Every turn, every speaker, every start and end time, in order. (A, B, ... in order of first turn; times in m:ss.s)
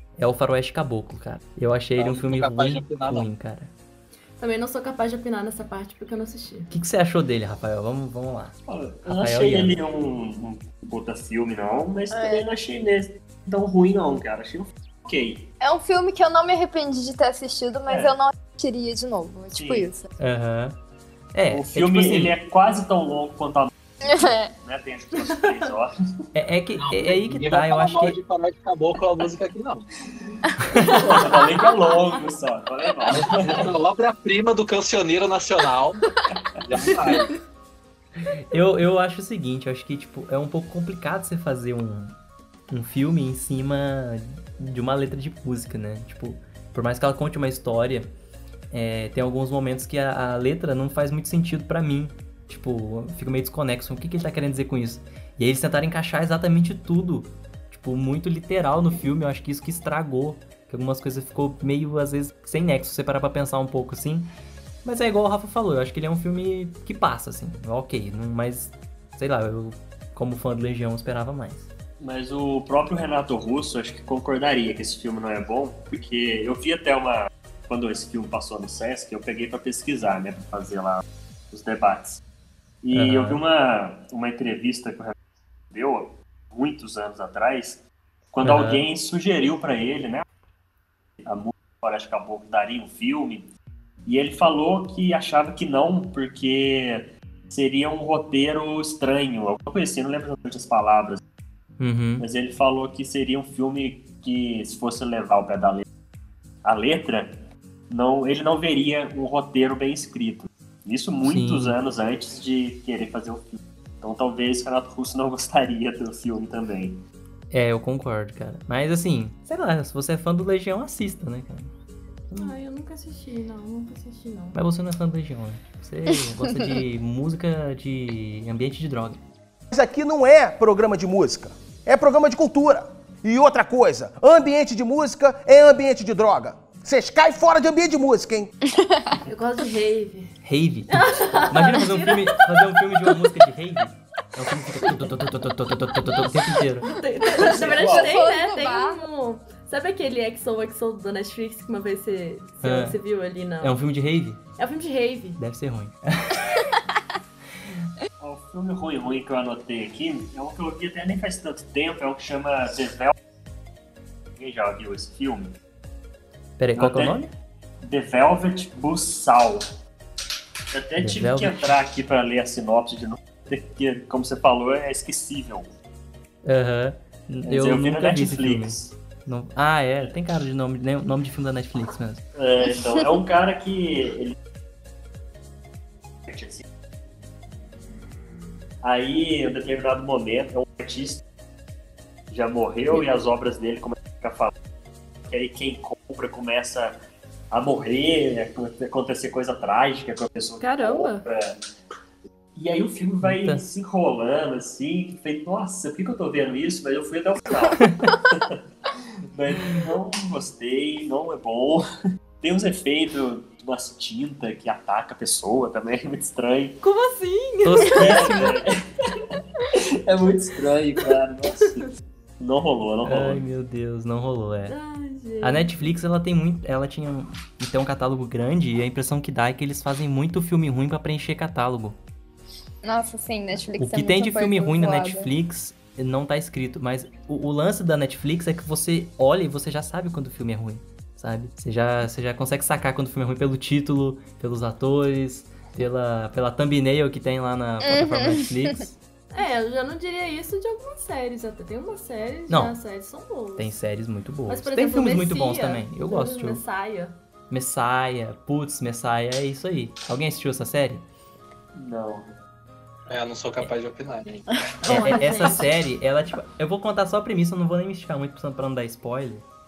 0:00.2-0:03.7 A
0:02.0-0:03.3 B
0:04.4-0:06.7 C
0:06.7-0:09.8 A
0:08.7-0:15.5 D
0:12.1-0:12.4 E
0:15.6-0:20.1 E
0:17.9-0:18.1 D
0:19.6-0:19.9 D
0:20.2-0:20.8 A
0:21.3-0:22.4 A
0:21.5-0:23.7 D
0:24.0-0:24.5 E
0:24.6-0:26.0 D
0:26.3-0:28.2 A
0:26.8-0:29.9 B
0:30.7-0:31.0 A
0:30.9-0:33.7 D
0:33.1-0:36.0 B
0:36.6-0:37.3 B
0:38.2-0:42.2 A
0:42.7-0:48.1 A
0:48.7-1:04.3 A
1:04.8-1:11.7 A
1:12.0-1:22.2 D
1:22.8-1:25.2 D
1:22.9-1:23.4 A
1:25.7-1:30.3 D
1:28.4-1:28.9 A
1:31.2-1:33.5 D
1:34.1-1:41.2 D
1:41.8-1:42.3 A
1:42.2-1:45.9 D
1:46.6-1:57.0 D
1:51.2-1:51.8 A
1:57.5-2:01.7 A
2:02.3-2:02.6 A
2:02.4-2:04.6 C
2:04.5-2:09.2 A
2:09.7-2:18.5 F
2:18.7-2:19.2 E
2:19.3-2:20.4 C
2:20.4-2:26.9 A
2:20.9-2:22.2 C
2:26.8-2:33.8 C
2:27.4-2:28.1 D
2:27.4-2:29.0 E
2:32.6-2:33.0 A
2:33.6-2:34.4 A
2:34.6-2:35.4 C
2:35.4-2:36.5 A
2:38.2-2:43.1 D
2:44.4-2:45.6 D
2:46.6-2:47.3 A
2:46.8-2:47.2 D
2:47.8-2:49.7 D
2:50.7-2:55.7 D
2:51.0-2:51.7 A
2:56.4-3:02.2 A
2:57.4-2:58.9 D
3:02.4-3:04.4 D
3:06.3-3:06.6 D
3:08.8-3:11.2 D
3:12.3-3:14.5 D
3:15.3-3:17.0 D
3:17.5-3:21.6 D
3:20.6-3:21.2 C
3:22.6-3:28.6 D
3:23.2-3:23.6 A
3:27.8-3:28.1 A
3:29.3-3:31.9 D
3:32.4-3:36.8 D
3:36.8-3:38.2 C
3:37.6-3:38.6 A
3:37.9-3:43.4 D
3:43.0-3:44.8 A
3:44.7-3:45.7 C
3:45.4-3:52.0 A
3:52.8-3:55.3 E
3:53.8-4:09.0 A
4:07.8-4:08.8 E
4:09.3-4:13.8 C
4:12.5-4:12.8 A
4:13.6-4:16.6 A
4:14.5-4:17.2 C
4:17.5-4:21.0 A
4:21.8-4:22.3 D
4:23.1-4:24.5 B
4:24.8-4:25.7 C
4:24.9-4:29.4 A